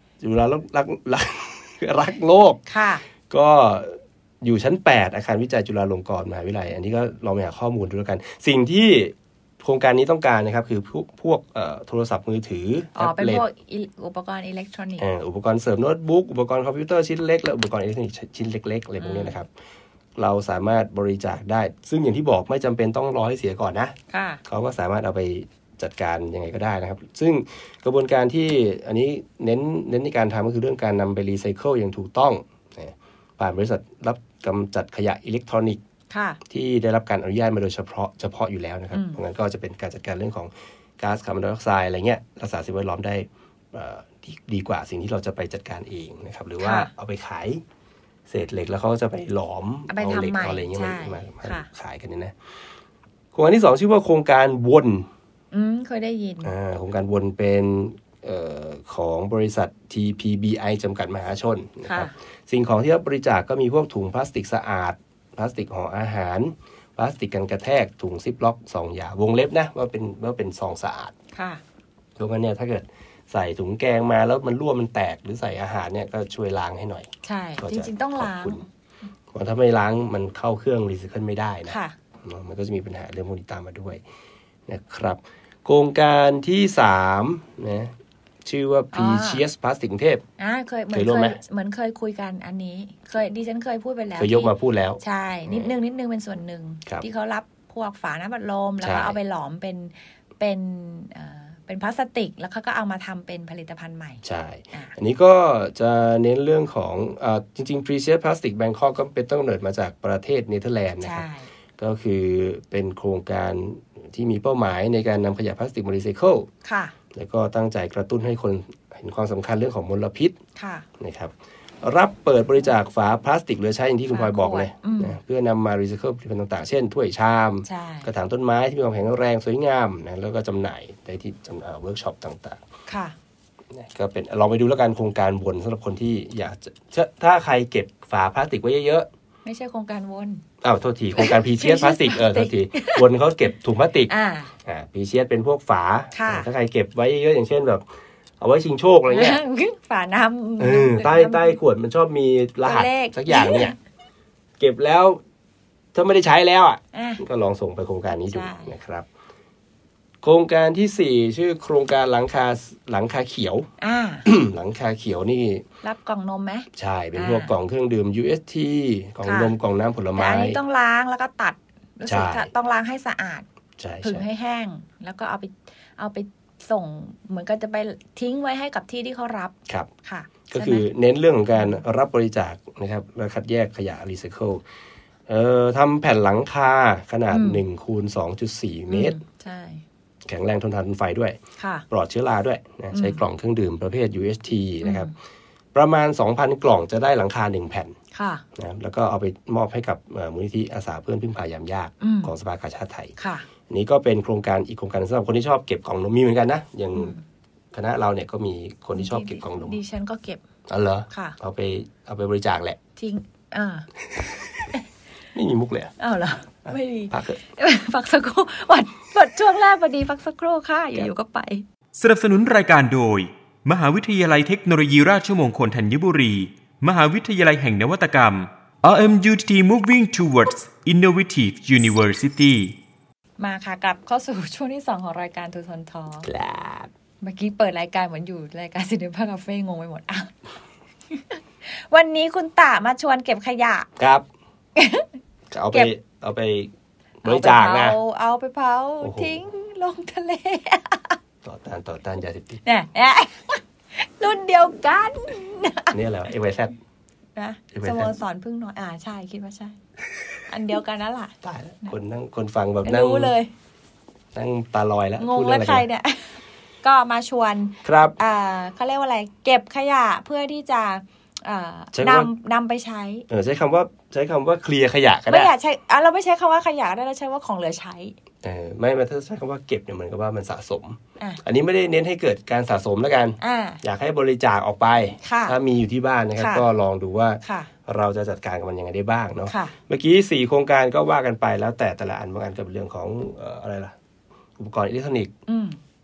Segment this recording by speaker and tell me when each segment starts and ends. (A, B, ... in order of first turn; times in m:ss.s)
0:00.2-0:02.6 A
0:02.7-0:03.0 B
0:03.3-0:13.4 A
0:13.0-0:15.1 B
0:15.0-0:19.5 A
0:19.0-0:19.4 B
0:20.2-0:24.0 A
0:24.1-0:24.4 B
0:24.5-0:35.8 A
0:36.1-0:36.4 B
0:36.5-0:47.6 A
0:38.9-0:39.2 B
0:46.6-0:46.9 B
0:48.3-0:52.4 A
0:49.9-0:51.7 B
0:53.3-0:55.1 A
0:55.5-0:56.5 B
0:56.4-1:11.1 A
1:01.9-1:02.1 B
1:11.3-1:11.6 B
1:12.2-1:18.6 A
1:17.2-1:18.6 B
1:19.3-1:24.0 A
1:21.7-1:22.0 B
1:24.7-1:30.2 A
1:28.9-1:29.4 B
1:30.4-1:44.9 B
1:30.9-1:31.4 A
1:34.2-1:35.7 A
1:38.8-1:39.2 A
1:44.2-1:51.2 A
1:51.0-1:51.5 B
1:51.8-1:56.5 A
1:56.6-1:56.9 B
1:57.1-2:00.4 A
2:00.6-2:00.9 B
2:01.0-2:12.6 A
2:04.1-2:05.2 B
2:07.6-2:08.1 B
2:12.9-2:13.1 B
2:13.7-2:19.1 A
2:19.4-2:20.4 B
2:20.6-2:24.1 A
2:21.2-2:23.1 B
2:24.1-2:24.5 B
2:24.6-2:27.8 A
2:26.1-2:26.5 B
2:28.4-2:29.4 A
2:29.1-2:31.6 B
2:30.6-2:33.7 A
2:32.6-2:33.8 B
2:34.6-2:35.2 A
2:35.9-2:39.1 A
2:36.9-2:37.2 B
2:38.1-2:38.8 B
2:40.2-2:43.7 A
2:43.8-2:44.2 B
2:44.2-2:45.6 A
2:45.8-2:47.5 B
2:46.7-2:50.6 A
2:49.2-2:49.5 B
2:50.2-2:53.4 B
2:52.1-2:52.5 A
2:53.8-2:54.2 A
2:54.0-3:00.9 B
3:00.5-3:04.6 A
3:01.6-3:01.8 B
3:05.3-3:09.2 A
3:07.3-3:07.6 B
3:08.9-3:09.8 B
3:10.2-3:11.4 A
3:11.6-3:11.8 B
3:11.9-3:15.1 A
3:12.9-3:13.2 B
3:14.8-3:15.1 B
3:15.7-3:18.0 A
3:18.1-3:18.4 B
3:18.6-3:23.1 A
3:22.0-3:22.3 B
3:23.2-3:23.5 B
3:23.7-3:27.1 A
3:26.9-3:27.2 B
3:27.7-3:29.8 A
3:28.9-3:30.4 B
3:30.7-3:32.8 A
3:31.1-3:31.4 B
3:33.0-3:33.9 B
3:35.3-3:35.9 A
3:36.0-3:41.6 B
3:36.6-3:37.4 A
3:42.0-3:52.8 C
3:53.4-3:56.3 B
3:56.2-3:56.9 A
3:57.2-4:00.3 B
4:01.1-4:03.9 B
4:04.0-4:04.2 A
4:04.8-4:05.1 B
4:05.5-4:06.7 A
4:07.2-4:08.0 A
4:07.2-4:11.2 B
4:09.0-4:09.4 A
4:11.4-4:12.6 A
4:12.6-4:16.0 B
4:15.9-4:16.8 A
4:17.4-4:19.8 B
4:17.7-4:18.1 A
4:20.5-4:21.9 B
4:21.4-4:23.4 A
4:22.8-4:23.5 B
4:24.3-4:25.9 A
4:25.2-4:33.2 B
4:27.8-4:28.2 A
4:31.9-4:32.3 A
4:33.3-4:35.5 A
4:35.3-4:38.1 B
4:38.4-4:54.0 A
4:43.4-4:43.8 B
4:45.2-4:45.6 B
4:46.4-4:46.6 B
4:47.4-4:47.7 B
4:49.5-4:49.8 B
4:54.6-4:55.3 A
4:55.5-4:55.8 B